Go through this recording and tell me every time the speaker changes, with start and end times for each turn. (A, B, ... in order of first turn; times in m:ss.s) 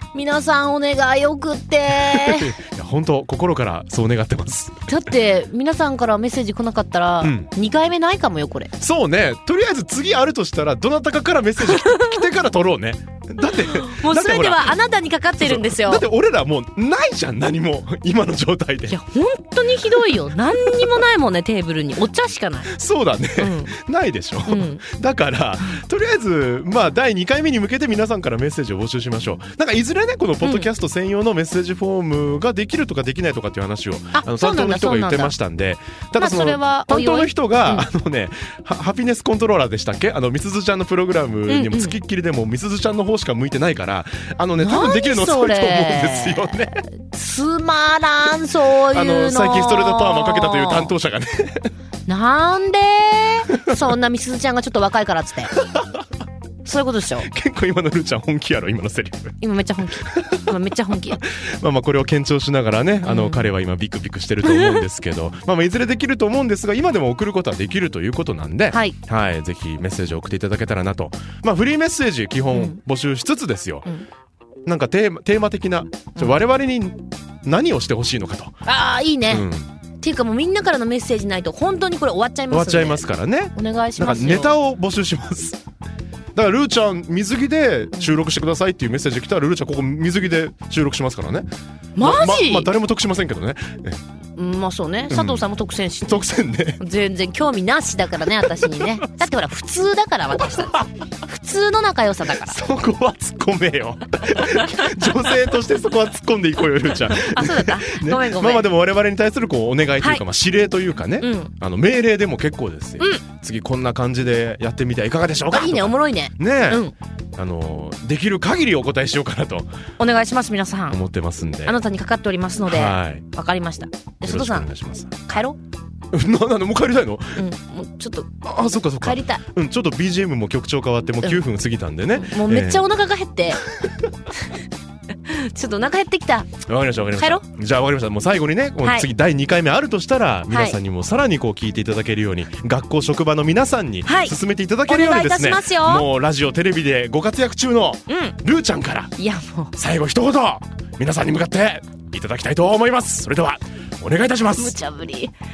0:00.1-0:02.6 A
0:02.0-0:04.8 B
0:04.8-0:08.7 A
0:07.2-0:07.5 B
0:08.8-0:14.8 B
0:11.6-0:12.2 A
0:13.4-0:16.0 A
0:15.4-0:19.0 B
0:18.9-0:22.7 A
0:22.7-0:46.8 B
0:23.4-0:23.7 A
0:24.4-0:24.8 A
0:30.4-0:30.7 A
0:34.1-0:35.3 A
0:36.2-0:37.9 A
0:41.5-0:42.0 A
0:44.6-0:50.9 A
0:48.9-0:51.7 B
0:52.0-0:55.6 A
0:55.6-0:56.0 B
0:56.6-0:57.3 A
0:57.2-0:59.4 B
0:59.4-1:01.2 A
1:00.0-1:00.5 B
1:01.2-1:13.9 B
1:03.0-1:03.5 A
1:04.4-1:04.8 A
1:08.7-1:09.0 A
1:12.5-1:12.8 A
1:14.6-1:18.6 B
1:18.6-1:19.5 A
1:19.3-1:19.6 B
1:20.0-1:23.0 A
1:22.5-1:25.6 B
1:23.5-1:24.6 A
1:26.3-1:31.5 B
1:32.0-1:32.7 A
1:32.0-1:34.0 B
1:34.4-1:36.2 A
1:35.1-1:35.5 B
1:36.0-1:36.8 B
1:36.8-1:42.6 A
1:42.4-1:59.7 B
1:47.1-1:48.7 A
1:50.0-1:50.2 A
1:51.2-1:51.5 A
1:55.5-1:56.9 A
2:00.0-2:01.0 A
2:00.9-2:01.8 B
2:01.6-2:05.6 A
2:02.6-2:03.2 B
2:04.2-2:05.2 B
2:06.1-2:07.4 B
2:07.3-2:08.4 A
2:08.4-2:12.8 B
2:09.0-2:09.4 A
2:12.1-2:13.6 A
2:15.2-2:16.6 A
2:16.6-2:29.1 B
2:17.2-2:17.4 A
2:18.8-2:19.1 A
2:20.5-2:20.8 A
2:24.0-2:26.0 A
2:28.1-2:28.4 A
2:29.2-2:29.7 A
2:29.8-2:34.8 B
2:34.5-2:35.3 A